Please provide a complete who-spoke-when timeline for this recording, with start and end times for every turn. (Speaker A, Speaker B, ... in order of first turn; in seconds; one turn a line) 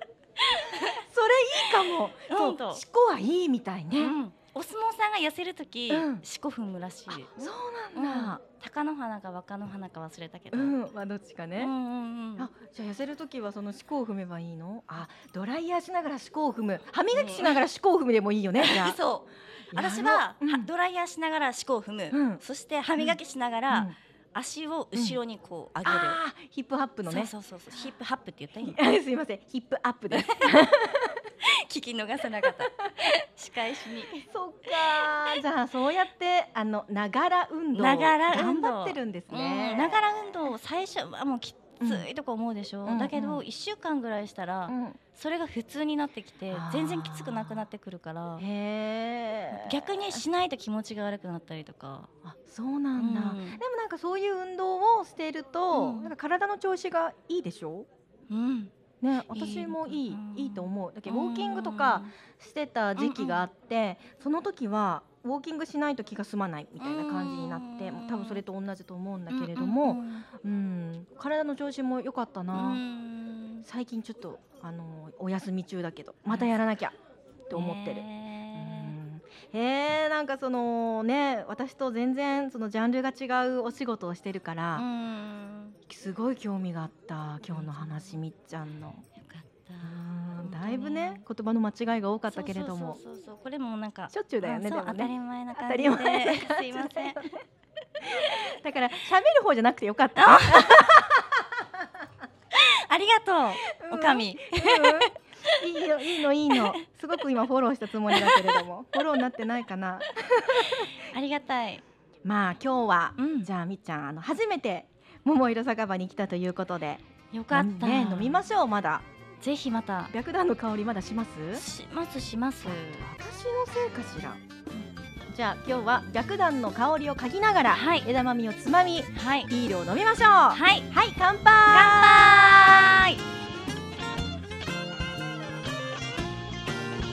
Speaker A: 0.4-1.0
Speaker B: 0.8-4.2
Speaker A: 1.6-2.8
Speaker A: 4.0-10.8
Speaker B: 5.9-6.2
Speaker B: 7.1-8.4
Speaker B: 10.5-11.7
Speaker A: 11.6-12.5
Speaker B: 12.4-19.0
Speaker A: 17.1-17.6
Speaker A: 18.6-26.2
Speaker B: 19.7-20.7
Speaker B: 22.1-22.4
Speaker B: 23.0-24.0
Speaker B: 24.9-25.2
Speaker B: 25.8-27.3
Speaker A: 27.1-28.8
Speaker B: 28.6-31.2
Speaker A: 30.1-30.5
Speaker A: 31.5-35.4
Speaker B: 34.0-40.5
Speaker A: 37.7-48.5
Speaker B: 41.8-42.1
Speaker B: 42.9-43.4
Speaker B: 44.7-45.0
Speaker B: 46.5-47.6
Speaker B: 48.4-50.2
Speaker A: 49.5-52.1
Speaker B: 52.2-57.9
Speaker A: 53.0-53.6
Speaker A: 55.7-56.1
Speaker A: 58.3-62.1
Speaker B: 59.0-72.8
Speaker A: 63.0-63.5
Speaker A: 66.8-68.4
Speaker A: 69.3-70.2
Speaker A: 72.5-73.7
Speaker B: 73.6-77.0
Speaker A: 76.3-76.5
Speaker B: 77.5-84.9
Speaker A: 77.5-79.0
Speaker A: 84.8-85.8
Speaker B: 85.9-89.0
Speaker A: 87.4-88.2
Speaker A: 89.2-91.2
Speaker B: 89.8-93.0
Speaker A: 92.3-97.4
Speaker B: 94.1-97.2
Speaker B: 98.1-101.4
Speaker A: 100.2-100.8
Speaker A: 102.5-105.6
Speaker B: 103.6-110.9
Speaker A: 108.1-108.6
Speaker A: 110.6-111.8
Speaker B: 112.2-119.1
Speaker A: 113.2-113.5
Speaker A: 117.3-118.4
Speaker A: 119.4-120.1
Speaker B: 120.1-121.6
Speaker A: 121.5-123.1
Speaker B: 122.6-124.4
Speaker B: 125.3-132.9
Speaker A: 127.7-128.1
Speaker A: 129.1-129.5
Speaker A: 130.5-130.9
Speaker A: 131.7-133.2